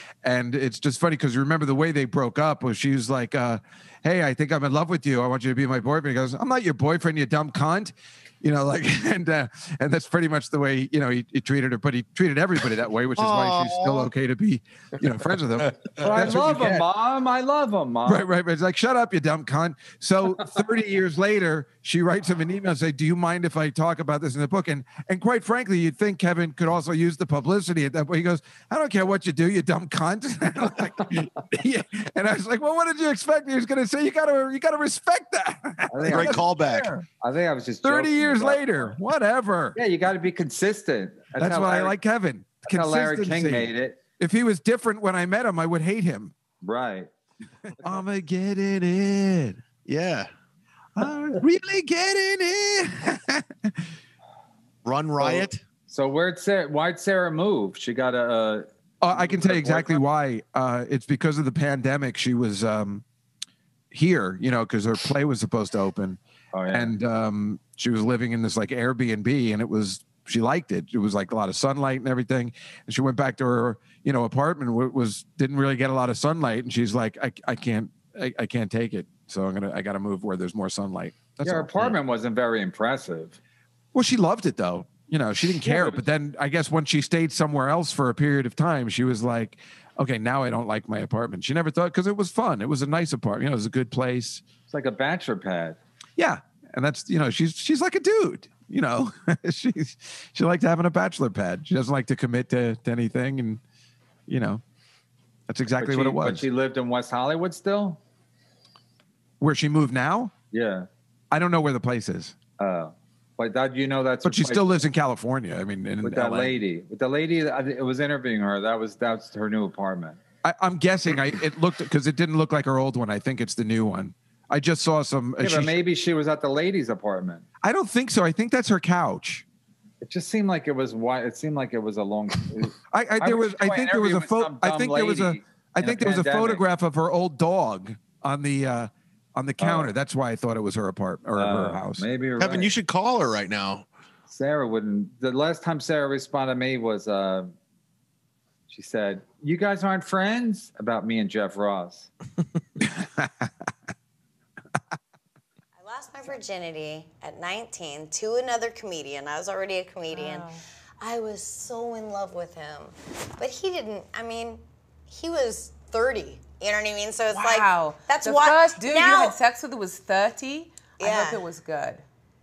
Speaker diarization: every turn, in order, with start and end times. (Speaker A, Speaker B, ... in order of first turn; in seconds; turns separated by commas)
Speaker A: 0.2-16.8, Speaker B: 13.2-14.1, Speaker C: 16.0-18.3, Speaker A: 18.1-36.4, Speaker C: 35.9-38.9, Speaker B: 36.0-37.0, Speaker A: 37.8-39.8, Speaker C: 39.7-42.0, Speaker A: 41.4-46.3, Speaker C: 42.6-44.0, Speaker C: 46.6-47.1, Speaker A: 47.8-49.6, Speaker B: 49.8-50.3, Speaker A: 51.0-53.8, Speaker B: 54.8-55.6, Speaker C: 55.2-60.0, Speaker A: 59.0-63.0, Speaker A: 63.9-66.2, Speaker C: 66.5-66.9, Speaker A: 66.7-81.9, Speaker C: 81.4-83.4, Speaker A: 83.9-94.4, Speaker C: 85.6-86.0, Speaker C: 94.7-95.8, Speaker A: 96.2-103.6, Speaker A: 104.3-104.6, Speaker A: 105.5-106.5, Speaker C: 105.8-108.0, Speaker A: 109.4-110.3, Speaker C: 110.5-110.9, Speaker A: 111.3-112.3, Speaker C: 112.6-114.8, Speaker A: 114.2-116.6, Speaker C: 116.0-120.2, Speaker A: 120.4-125.8, Speaker C: 125.4-127.4, Speaker A: 127.6-129.4, Speaker C: 130.0-136.6, Speaker A: 132.9-142.1, Speaker C: 139.6-139.9, Speaker C: 141.3-142.7, Speaker B: 142.4-143.8, Speaker C: 144.3-147.5, Speaker C: 148.7-152.1, Speaker A: 152.8-153.5, Speaker D: 155.8-160.5, Speaker E: 160.1-160.6, Speaker D: 161.0-169.3, Speaker E: 167.3-172.0, Speaker D: 171.0-171.4